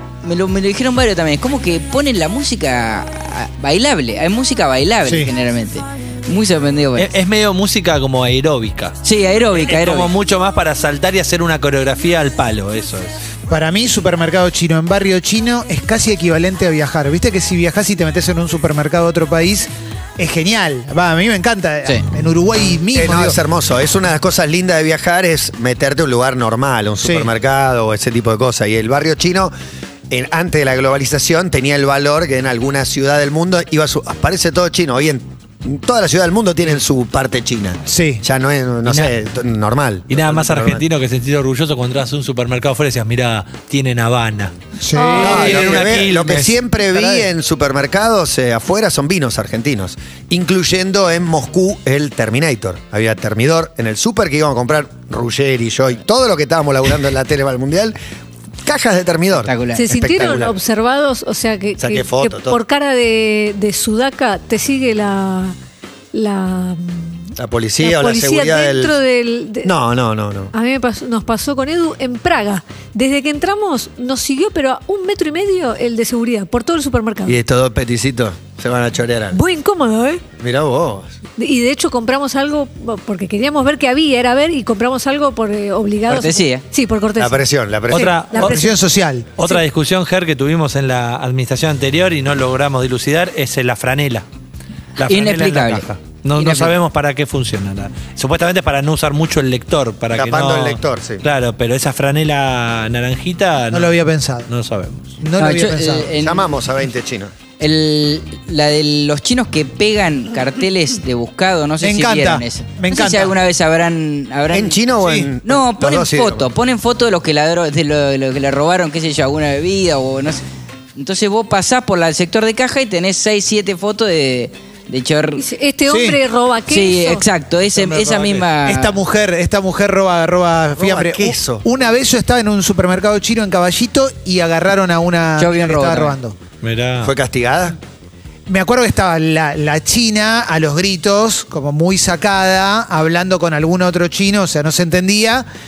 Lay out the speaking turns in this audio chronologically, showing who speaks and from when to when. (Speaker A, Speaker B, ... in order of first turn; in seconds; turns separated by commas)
Speaker A: 0.2-7.1, Speaker B: 5.1-5.3, Speaker C: 7.0-9.0, Speaker A: 9.0-10.1, Speaker C: 9.5-13.1, Speaker B: 13.5-23.4, Speaker D: 22.9-29.5, Speaker B: 27.0-27.3, Speaker D: 30.1-40.9, Speaker B: 37.9-38.2, Speaker C: 38.9-39.1, Speaker C: 40.1-44.5, Speaker B: 44.8-45.9, Speaker E: 44.9-45.2, Speaker D: 45.1-58.0, Speaker C: 45.1-46.6, Speaker B: 46.9-47.2, Speaker D: 58.6-60.6, Speaker A: 59.5-59.8, Speaker E: 59.8-65.5, Speaker D: 61.8-62.6, Speaker E: 66.1-69.7, Speaker D: 67.4-69.0, Speaker D: 69.6-70.5, Speaker E: 70.5-77.4, Speaker D: 77.2-79.4, Speaker E: 79.3-80.2, Speaker D: 80.4-81.1, Speaker E: 81.4-87.5, Speaker A: 86.1-86.6, Speaker D: 87.2-88.2, Speaker C: 87.9-88.6, Speaker B: 87.9-89.3, Speaker E: 88.3-89.6, Speaker C: 89.3-94.2, Speaker C: 95.0-105.1, Speaker A: 95.0-96.7, Speaker D: 100.1-101.2, Speaker B: 103.7-104.5, Speaker B: 105.2-106.1, Speaker A: 105.4-106.5, Speaker D: 106.2-107.3, Speaker A: 107.6-114.8, Speaker B: 111.8-113.3, Speaker D: 114.5-116.4, Speaker B: 115.0-115.3, Speaker A: 115.5-120.4, Speaker A: 121.0-125.5, Speaker E: 125.4-127.2, Speaker B: 125.9-126.2, Speaker A: 126.7-129.0, Speaker B: 128.1-136.4, Speaker D: 130.8-131.7, Speaker A: 135.4-136.2, Speaker C: 136.6-137.1, Speaker D: 137.0-137.8, Speaker B: 138.5-145.5